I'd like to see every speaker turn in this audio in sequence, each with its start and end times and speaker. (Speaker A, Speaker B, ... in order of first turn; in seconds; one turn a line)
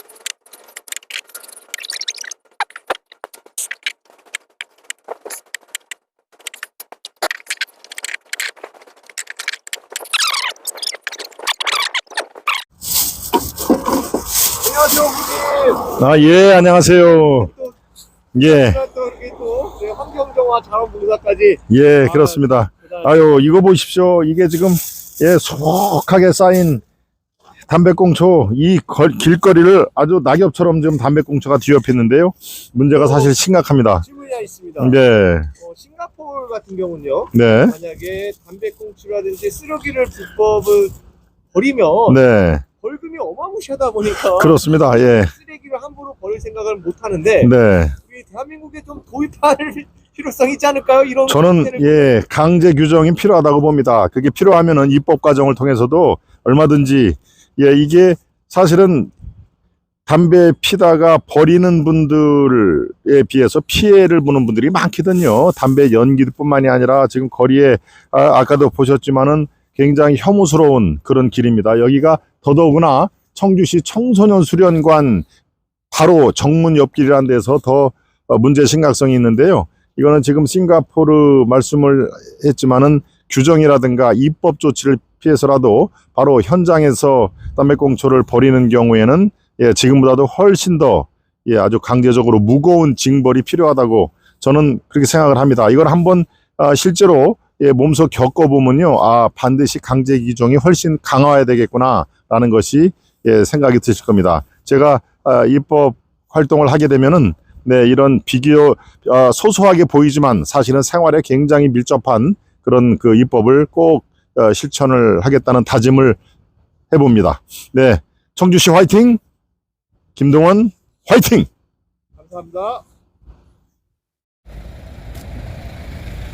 Speaker A: 14.6-15.8
Speaker B: 15.8-17.5
Speaker A: 17.2-17.8
Speaker B: 18.3-18.8
Speaker A: 18.4-23.2
Speaker B: 21.7-26.8
Speaker B: 27.7-34.0
Speaker A: 32.9-33.3
Speaker A: 34.0-35.0
Speaker B: 34.8-35.5
Speaker A: 35.6-40.9
Speaker B: 37.3-37.7
Speaker A: 41.5-42.2
Speaker B: 42.1-42.6
Speaker A: 42.8-47.5
Speaker B: 44.3-45.3
Speaker B: 47.4-48.0
Speaker A: 48.1-52.1
Speaker B: 51.3-59.1
Speaker B: 60.0-75.2
Speaker B: 75.9-116.2
Speaker B: 116.9-119.2
Speaker B: 120.2-121.5
Speaker A: 122.2-122.8